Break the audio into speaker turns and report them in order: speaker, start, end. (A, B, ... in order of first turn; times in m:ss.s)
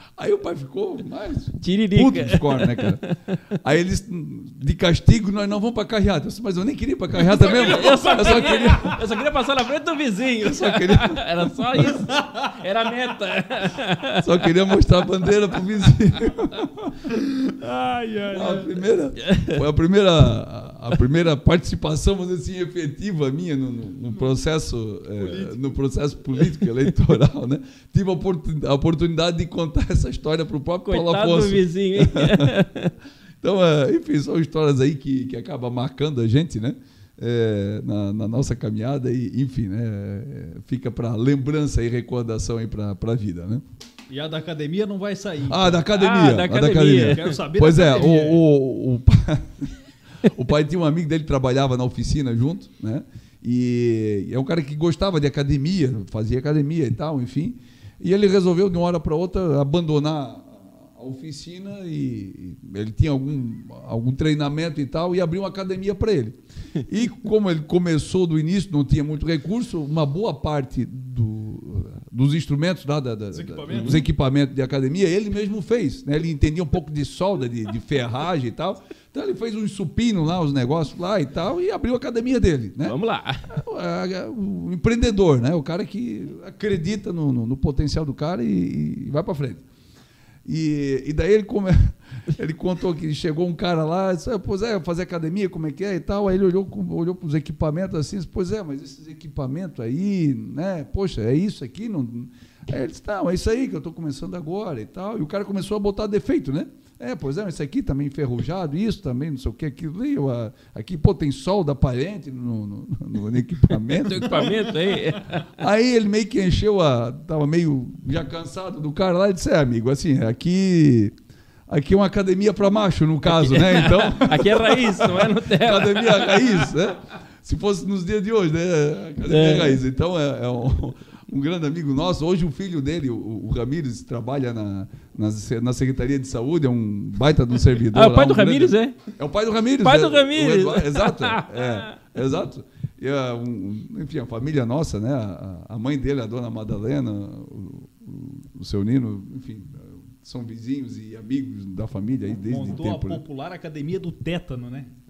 0:00.2-0:03.0 A
0:01.6-0:03.6 B
0:03.5-0:09.2 A
0:07.1-0:14.5 B
0:10.4-0:11.8 A
0:14.2-0:17.1 A
0:17.1-0:18.8 C
0:18.3-0:32.6 A
0:19.2-0:19.6 B
0:25.2-0:25.6 C
0:30.8-0:32.9 B
0:33.4-0:43.6 A
0:44.1-0:45.8 C
0:45.5-1:29.6 A
0:45.9-0:47.3 B
0:46.6-0:48.4 C
1:13.3-1:14.0 C
1:13.7-1:14.0 B
1:22.8-1:23.5 B
1:30.4-1:54.7 A
1:54.0-1:55.5 B
1:54.3-1:54.7 C
1:55.4-2:01.1 A
2:01.7-2:33.2 A
2:03.2-2:06.6 B
2:09.2-2:09.8 B
2:17.9-2:19.0 B
2:19.8-2:22.0 B
2:32.4-2:34.9 C